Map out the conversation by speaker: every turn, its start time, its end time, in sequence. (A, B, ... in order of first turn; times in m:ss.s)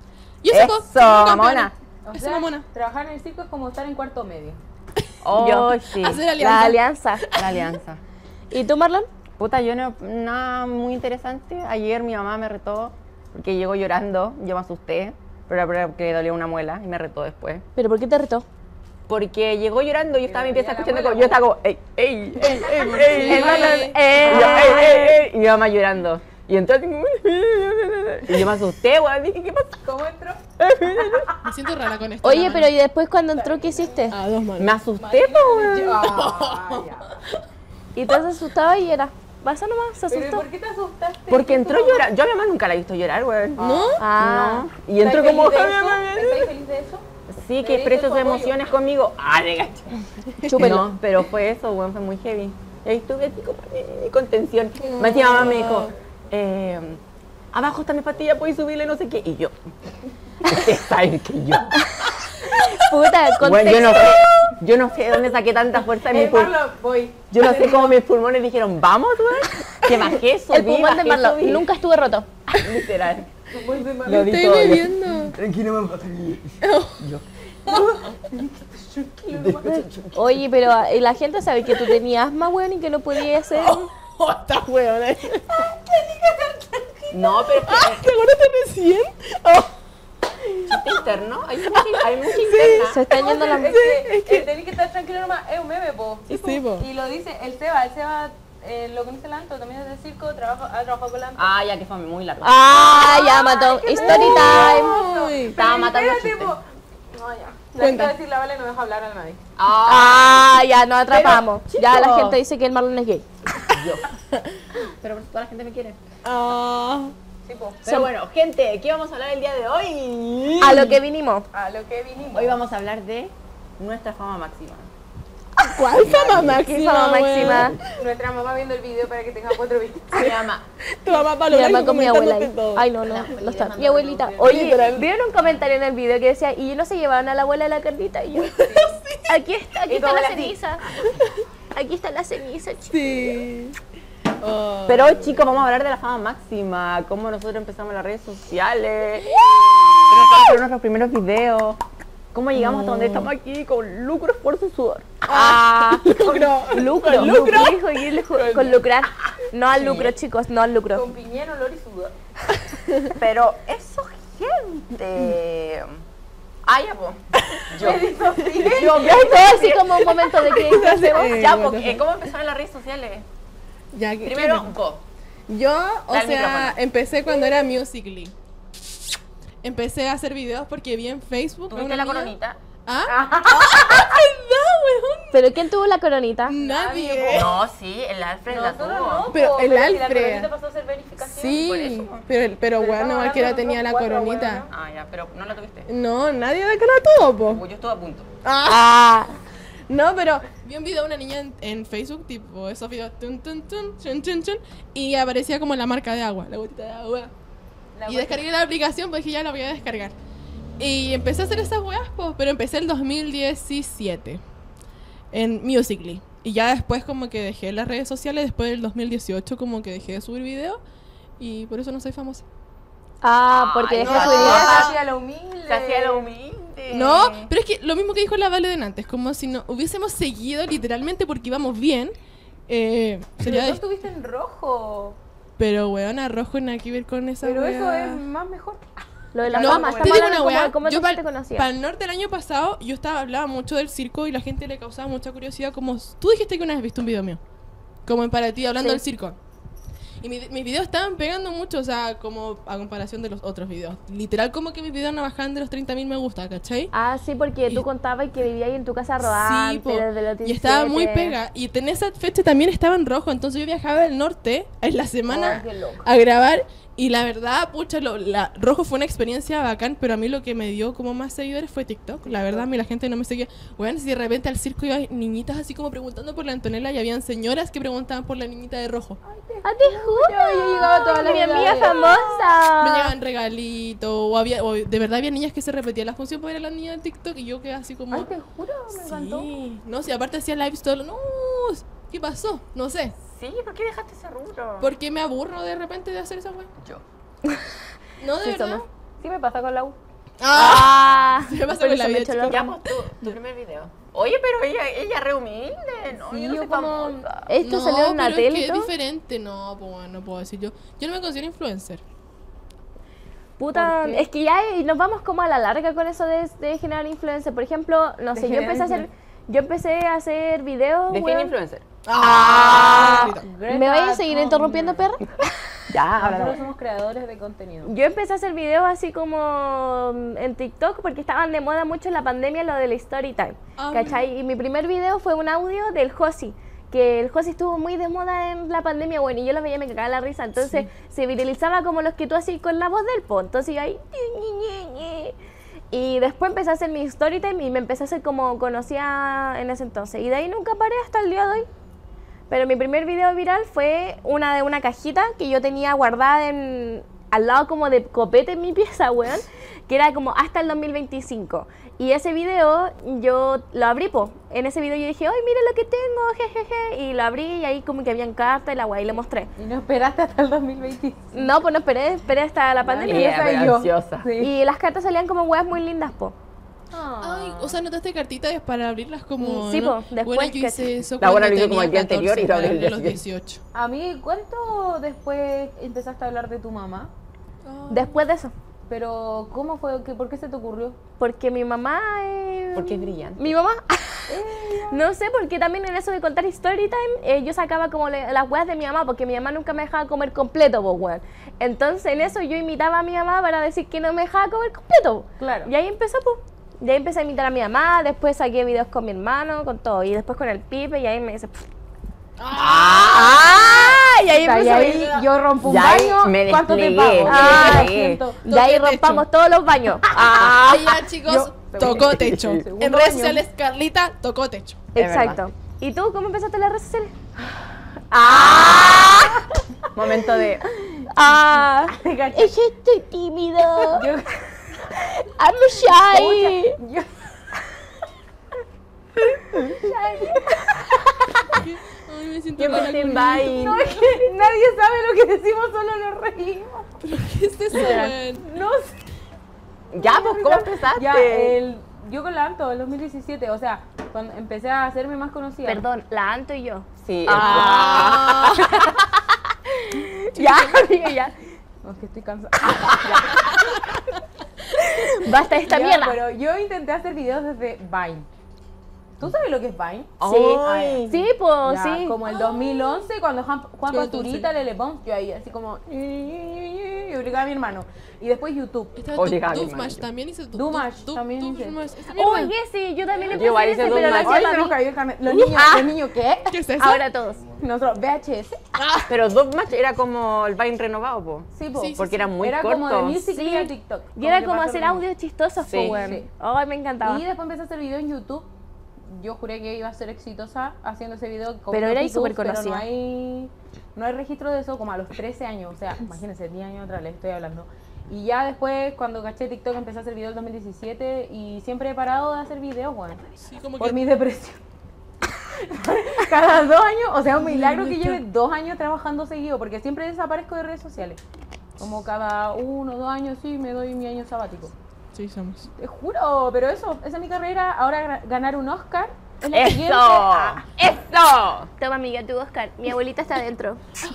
0:00.4-0:02.7 A
0:00.5-0:01.7 B
0:02.1-0:04.6 C
0:05.2-0:06.3 B
0:05.3-0:05.8 D
0:05.9-0:07.7 A
0:06.3-0:07.3 D
0:07.3-0:08.0 B
0:08.5-0:09.1 D
0:09.4-0:17.6 B
0:17.8-0:18.5 D
0:19.1-0:29.8 B
0:20.2-0:21.4 C
0:22.4-0:25.0 C
0:22.7-0:24.4 A
0:23.3-0:25.1 D
0:29.8-0:31.4 C
0:30.6-0:31.3 B
0:31.4-0:32.7 A
0:32.2-0:34.2 D
0:33.4-0:34.1 C
0:34.1-0:34.8 A
0:34.6-0:36.2 B
0:35.0-0:37.1 C
0:35.7-0:37.2 A
0:38.0-0:40.5 D
0:40.1-0:42.1 C
0:41.3-0:46.3 B
0:43.6-0:43.9 C
0:43.6-0:44.0 A
0:44.0-0:44.7 D
0:45.0-0:47.0 C
0:47.3-0:49.9 B
0:47.6-0:48.6 C
0:50.4-0:50.8 A
0:50.5-0:50.9 D
0:50.6-0:57.0 B
0:54.8-0:55.9 A
0:57.5-0:59.6 B
1:00.4-1:01.8 B
1:02.5-1:04.2 D
1:03.4-1:06.6 B
1:06.1-1:08.0 C
1:07.3-1:11.7 B
1:09.9-1:10.1 A
1:10.5-1:12.3 D
1:12.5-1:13.3 B
1:13.5-1:14.4 C
1:14.0-1:18.0 B
1:14.1-1:15.4 A
1:16.6-1:17.1 A
1:17.7-1:19.9 C
1:19.3-1:20.4 B
1:20.1-1:23.9 D
1:21.7-1:22.0 A
1:23.2-1:24.8 A
1:24.6-1:25.4 B
1:25.9-1:26.9 C
1:27.1-1:28.1 B
1:27.6-1:29.7 A
1:30.4-1:30.8 A
1:30.6-1:33.0 B
1:31.7-1:34.5 A
1:32.9-1:33.8 D
1:33.1-1:41.5 C
1:36.3-1:36.9 A
1:41.4-1:43.3 B
1:42.4-1:45.0 D
1:42.8-1:49.4 C
1:44.0-1:45.6 A
1:45.5-1:46.6 B
1:47.8-1:48.1 A
1:49.6-1:50.6 B
1:49.8-1:53.3 D
1:51.1-1:52.4 B
1:53.7-1:54.1 B
1:54.8-1:56.0 B
1:56.2-1:57.1 A
1:57.5-1:57.8 C
1:57.9-2:01.0 B
2:00.6-2:01.5 D
2:01.5-2:02.6 C
2:02.3-2:04.9 B
2:05.6-2:07.8 A
2:05.9-2:06.7 B
2:06.5-2:07.8 D
2:07.4-2:07.8 B
2:07.9-2:10.3 C
2:10.1-2:10.6 B
2:11.0-2:12.7 A
2:11.4-2:18.6 D
2:11.8-2:14.8 B
2:14.4-2:15.0 A
2:18.6-2:19.0 C
2:18.6-2:19.4 A
2:19.3-2:21.0 D
2:19.9-2:20.6 C
2:21.0-2:21.4 A
2:21.7-2:23.4 D
2:22.9-2:23.8 A
2:24.4-2:25.5 A
2:24.9-2:29.4 B
2:29.2-2:30.4 A
2:30.1-2:31.8 B
2:32.3-2:37.8 B
2:32.6-2:33.3 A
2:35.3-2:37.7 A
2:36.7-2:41.1 D
2:38.3-2:38.8 A
2:39.7-2:40.2 B
2:40.9-2:42.1 C
2:43.1-2:46.0 B
2:46.6-2:50.2 B
2:47.8-2:49.2 C
2:49.1-2:51.5 D
2:50.1-2:52.0 A
2:51.3-2:53.3 B
2:53.9-2:54.7 A
2:54.2-2:55.0 B
2:55.5-2:58.3 A
2:56.1-2:56.8 B
2:59.6-3:02.4 A
3:01.7-3:02.6 B
3:02.9-3:05.5 A
3:03.1-3:04.1 C
3:05.3-3:06.6 D
3:06.5-3:07.6 A
3:06.6-3:07.5 C
3:07.3-3:09.4 B
3:08.5-3:11.6 C
3:09.3-3:10.5 A
3:11.2-3:14.6 A
3:11.5-3:12.3 B
3:12.8-3:14.7 C
3:14.7-3:15.9 B
3:15.9-3:17.6 A
3:17.5-3:18.3 B
3:18.4-3:19.0 A
3:18.7-3:19.3 D
3:19.9-3:27.3 A
3:28.0-3:28.4 C
3:28.1-3:30.1 A
3:30.8-3:34.4 A
3:35.3-3:40.8 A
3:41.4-3:42.4 A
3:43.2-3:45.0 D
3:43.5-3:45.0 B
3:44.0-3:46.3 C
3:44.1-3:44.8 A
3:45.7-3:47.5 B
3:46.9-3:52.1 A
3:52.7-3:53.8 A
3:53.4-3:55.2 C
3:55.6-3:58.2 A
3:57.4-3:58.8 C
3:59.3-4:01.7 D
3:59.4-4:00.4 C
3:59.6-4:07.4 A
4:08.1-4:09.4 A
4:10.2-4:16.9 A
4:16.9-4:21.4 D
4:19.2-4:39.2 A
4:25.3-4:26.1 C
4:32.2-4:32.7 C
4:39.2-4:42.3 C
4:39.6-4:43.1 D
4:40.8-4:48.3 A
4:48.1-4:49.5 C
4:48.9-4:53.2 A
4:53.3-4:54.9 B
4:54.8-4:56.7 A
4:58.2-4:58.9 A
4:58.4-4:58.9 D
4:59.2-5:00.0 C
5:00.4-5:03.0 A
5:00.5-5:02.6 D
5:00.6-5:01.1 B
5:02.4-5:07.5 B
5:06.2-5:07.3 C
5:07.5-5:08.9 D
5:07.6-5:12.0 A
5:13.6-5:21.5 D
5:13.7-5:14.3 C
5:18.4-5:19.1 C
5:21.1-5:23.3 B
5:22.0-5:23.5 A
5:22.4-5:25.5 D
5:23.3-5:25.1 C
5:25.9-5:26.6 B
5:26.2-5:27.9 C
5:27.8-5:45.4 D
5:33.8-5:34.2 A
5:40.6-5:40.9 A
5:45.9-5:51.7 D
5:52.5-6:09.5 D
6:09.6-6:11.5 C
6:11.3-6:13.6 D
6:12.8-6:14.5 C
6:13.0-6:14.3 B
6:14.4-6:16.4 D
6:16.9-6:17.8 C
6:17.2-6:23.6 A
6:19.4-6:20.9 D
6:21.2-6:23.2 B
6:23.7-6:27.1 C
6:27.6-6:28.2 A
6:27.9-6:28.5 D
6:28.9-6:31.0 C
6:31.2-6:34.4 D
6:32.8-6:33.5 B
6:34.3-6:35.0 C
6:34.9-6:51.7 D
6:45.4-6:45.7 C
6:52.4-6:53.4 A
6:52.5-6:58.2 B
6:53.1-6:55.2 D
6:54.4-6:58.4 C
6:57.3-6:57.9 D
6:58.4-7:00.5 D
6:58.5-6:59.2 A
7:00.2-7:01.0 B
7:00.4-7:04.8 A
7:01.2-7:03.4 C
7:01.9-7:02.6 B
7:05.0-7:07.1 D
7:05.0-7:05.4 B
7:08.2-7:09.3 B
7:08.2-7:09.4 D
7:08.3-7:09.9 C
7:09.9-7:10.6 B
7:11.0-7:12.6 C
7:11.1-7:14.1 D
7:13.9-7:14.8 C
7:15.0-7:16.8 D
7:16.1-7:17.2 C
7:19.5-7:21.6 C
7:19.7-7:20.6 D
7:21.6-7:23.8 A
7:22.6-7:24.1 B
7:23.6-7:26.9 C
7:27.0-7:28.4 A
7:27.7-7:29.0 C
7:29.9-7:31.6 B
7:30.0-7:35.9 C
7:35.7-7:41.4 D
7:37.0-7:38.8 B
7:37.4-7:38.7 A
7:40.3-7:41.0 A
7:41.8-7:43.4 C
7:44.7-7:46.2 D
7:45.6-7:48.3 C
7:49.2-7:59.0 C
7:50.2-7:51.3 B
7:50.2-7:52.4 D
7:53.9-7:54.5 A
7:59.0-8:02.5 A
7:59.1-8:00.0 B
8:00.5-8:01.8 C
8:02.1-8:05.9 D
8:03.3-8:04.5 B
8:03.9-8:06.5 C
8:06.5-8:07.1 A
8:06.8-8:07.4 D
8:07.6-8:08.6 C
8:08.8-8:09.1 A
8:09.1-8:13.2 B
8:11.5-8:15.0 C
8:11.8-8:12.3 A
8:13.3-8:17.2 D
8:15.6-8:16.2 B
8:15.9-8:16.3 C
8:17.0-8:18.5 C
8:19.0-8:33.2 C
8:21.7-8:22.8 D
8:33.4-8:34.0 A
8:33.8-8:34.6 C
8:35.5-8:41.2 C
8:37.4-8:38.2 A
8:41.8-8:44.7 C
8:45.1-8:45.7 A
8:45.8-8:50.6 C
8:49.5-8:51.7 B
8:49.6-8:50.0 D
8:51.8-8:53.8 D